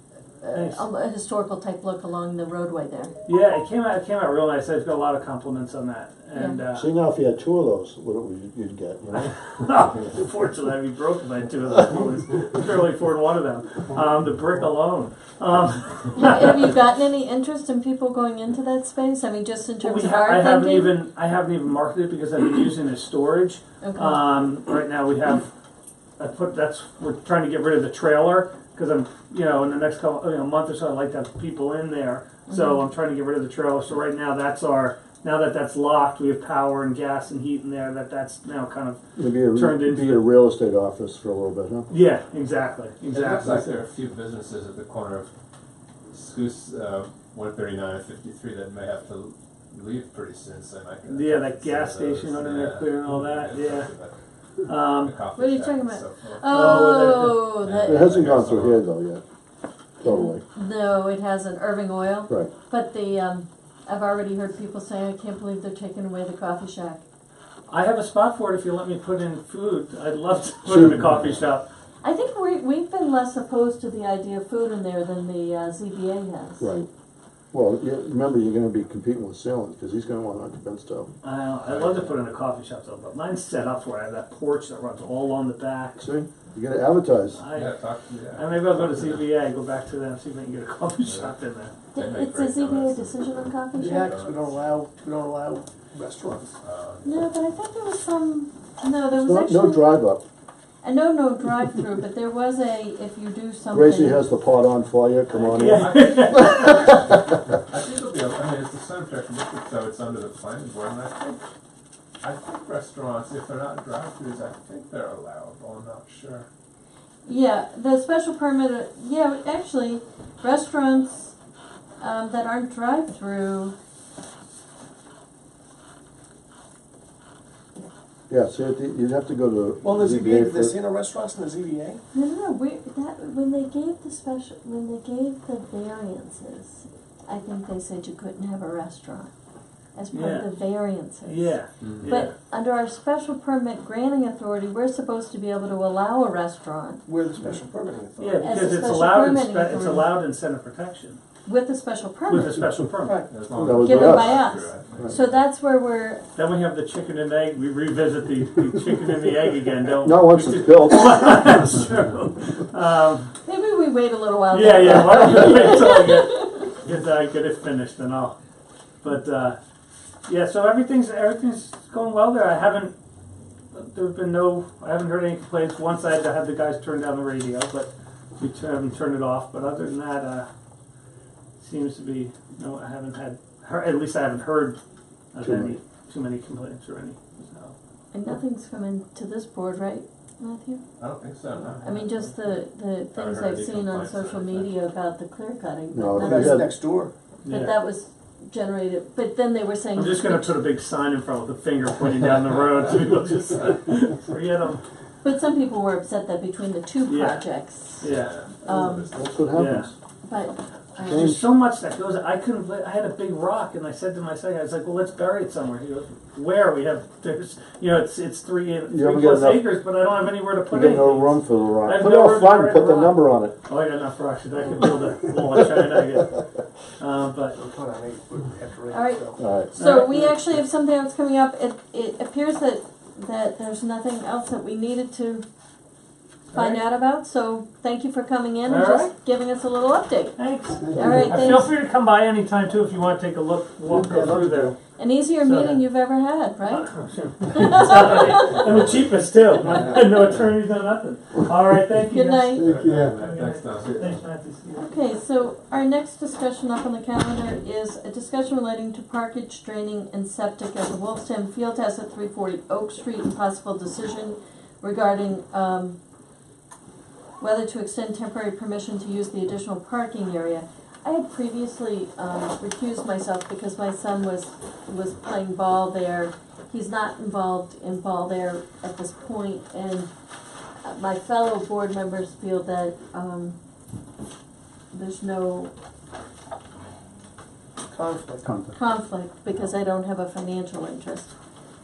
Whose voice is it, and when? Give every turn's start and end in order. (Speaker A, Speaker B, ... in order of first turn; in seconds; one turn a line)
Speaker A: 0.4-3.1
Speaker B: 0.5-0.8
Speaker B: 3.2-6.9
Speaker A: 6.3-6.6
Speaker C: 6.7-9.4
Speaker B: 9.1-16.7
Speaker A: 16.1-21.0
Speaker B: 19.8-25.5
Speaker A: 23.8-24.2
Speaker B: 26.2-40.3
Speaker A: 32.5-32.8
Speaker C: 39.1-41.9
Speaker B: 41.9-43.6
Speaker D: 43.1-45.3
Speaker D: 46.1-54.1
Speaker B: 51.0-53.9
Speaker B: 54.6-55.2
Speaker D: 54.9-58.8
Speaker A: 55.4-58.1
Speaker B: 56.4-57.5
Speaker C: 57.8-59.2
Speaker C: 60.0-60.4
Speaker A: 60.0-67.0
Speaker B: 67.7-71.7
Speaker C: 70.7-71.0
Speaker D: 70.8-71.4
Speaker A: 72.0-76.7
Speaker C: 76.6-76.9
Speaker C: 77.5-81.1
Speaker B: 81.2-86.0
Speaker D: 81.6-82.3
Speaker C: 86.0-87.4
Speaker B: 87.3-87.8
Speaker D: 87.5-89.2
Speaker B: 88.3-91.7
Speaker D: 91.0-91.3
Speaker A: 91.9-94.1
Speaker D: 91.9-94.6
Speaker E: 93.7-96.5
Speaker D: 96.6-97.3
Speaker A: 97.0-100.0
Speaker C: 99.1-100.2
Speaker A: 100.8-104.3
Speaker C: 103.7-106.0
Speaker D: 105.3-111.4
Speaker B: 105.5-106.9
Speaker D: 112.2-116.5
Speaker A: 117.2-121.3
Speaker A: 122.0-123.7
Speaker C: 128.3-130.8
Speaker E: 129.8-132.0
Speaker A: 132.1-139.3
Speaker A: 139.9-147.0
Speaker B: 140.1-140.5
Speaker B: 141.2-142.3
Speaker D: 141.8-142.1
Speaker E: 147.1-148.4
Speaker B: 148.2-151.2
Speaker A: 148.4-150.1
Speaker A: 151.4-152.6
Speaker B: 152.3-153.2
Speaker E: 153.0-153.3
Speaker D: 153.3-155.4
Speaker C: 153.5-154.5
Speaker A: 153.8-156.2
Speaker B: 156.3-163.3
Speaker C: 160.0-161.3
Speaker A: 163.4-166.3
Speaker B: 164.5-168.3
Speaker B: 169.0-169.6
Speaker B: 170.3-172.9
Speaker B: 173.7-180.5
Speaker B: 181.6-184.8
Speaker B: 185.3-187.7
Speaker C: 185.4-185.8
Speaker A: 188.1-190.8
Speaker D: 191.0-192.4
Speaker A: 191.8-196.7
Speaker D: 193.1-194.7
Speaker C: 195.9-196.7
Speaker E: 196.2-197.1
Speaker B: 197.4-197.8
Speaker A: 197.5-200.6
Speaker B: 199.9-204.8
Speaker A: 205.2-208.1
Speaker B: 207.1-208.3
Speaker D: 208.0-209.3
Speaker A: 208.6-209.1
Speaker C: 208.8-209.9
Speaker B: 209.5-209.9
Speaker A: 210.2-211.4
Speaker C: 211.0-211.4
Speaker B: 211.0-227.6
Speaker C: 218.9-219.7
Speaker C: 220.7-223.6
Speaker E: 227.6-229.4
Speaker A: 228.9-235.4
Speaker C: 229.4-229.7
Speaker B: 229.7-230.4
Speaker A: 236.5-241.7
Speaker D: 236.5-236.8
Speaker B: 238.7-239.1
Speaker B: 240.4-244.8
Speaker C: 240.9-241.3
Speaker C: 243.9-244.7
Speaker A: 245.0-246.9
Speaker B: 245.4-245.8
Speaker B: 246.7-254.9
Speaker A: 247.5-248.7
Speaker D: 249.7-250.4
Speaker A: 252.1-252.7
Speaker C: 252.6-253.2
Speaker D: 252.6-254.2
Speaker A: 254.7-266.0
Speaker A: 267.4-280.1
Speaker A: 280.8-283.6
Speaker A: 284.9-285.7
Speaker E: 287.9-288.6
Speaker C: 288.4-288.7
Speaker A: 288.7-291.3